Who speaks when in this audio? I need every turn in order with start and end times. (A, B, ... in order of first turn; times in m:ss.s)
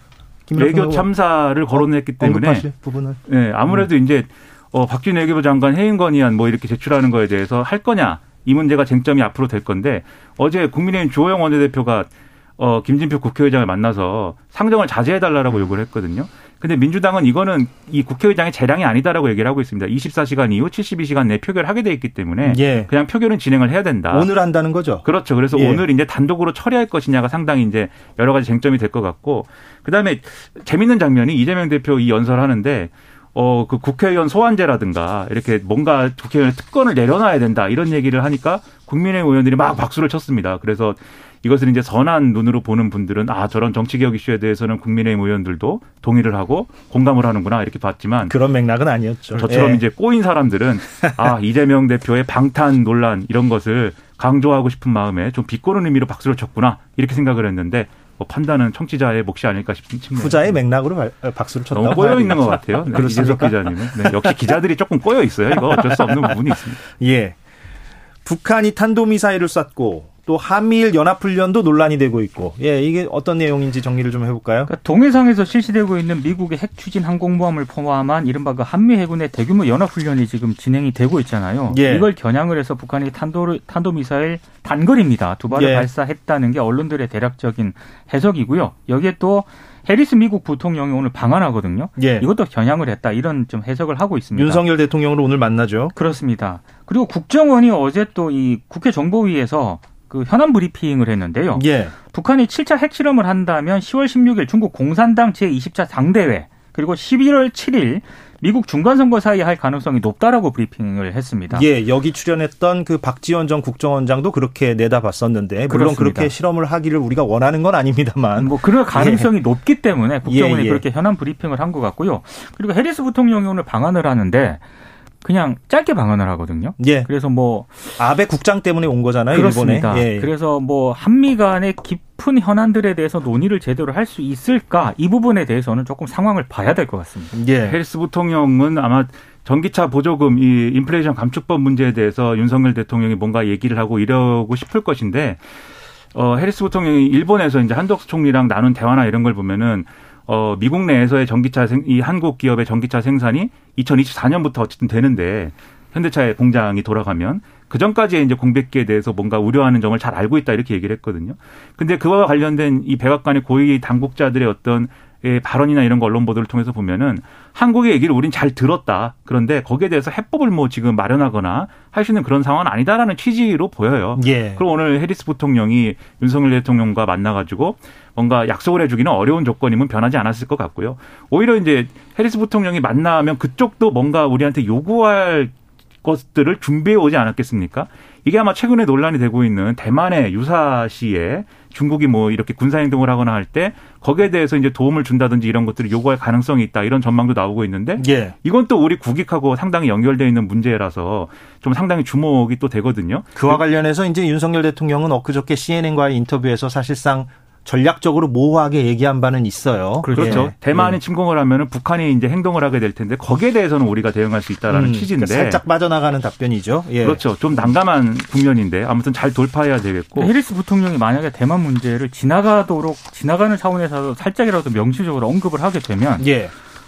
0:00.5-0:01.1 A
0:00.6-0:02.7 B
0:01.7-0:03.9 A
0:03.3-0:24.3 B
0:22.4-0:22.9 A
0:24.1-0:25.8 A
0:25.0-0:48.4 B
0:48.3-0:49.8 A
0:49.3-1:00.6 B
1:00.2-1:04.5 A
1:01.7-1:06.8 B
1:05.6-1:07.4 A
1:08.2-1:14.7 A
1:14.7-1:34.6 C
1:21.7-1:22.1 A
1:25.5-1:25.9 A
1:32.0-1:32.3 A
1:34.3-1:35.9 A
1:35.9-1:51.7 C
1:41.5-1:41.9 A
1:51.5-1:59.3 A
1:55.7-1:56.3 C
1:58.4-2:04.6 C
2:00.2-2:00.8 A
2:05.2-2:08.0 C
2:06.8-2:07.1 A
2:08.0-2:10.3 A
2:09.3-2:17.3 C
2:17.3-2:17.8 A
2:17.6-2:25.4 B
2:26.1-3:23.6 B
2:54.2-2:54.6 A
3:18.0-3:18.4 A
3:23.4-3:31.0 A
3:30.0-3:30.5 C
3:30.1-3:35.6 B
3:34.7-3:37.2 A
3:37.0-3:40.3 B
3:40.2-3:46.3 C
3:46.2-3:46.5 A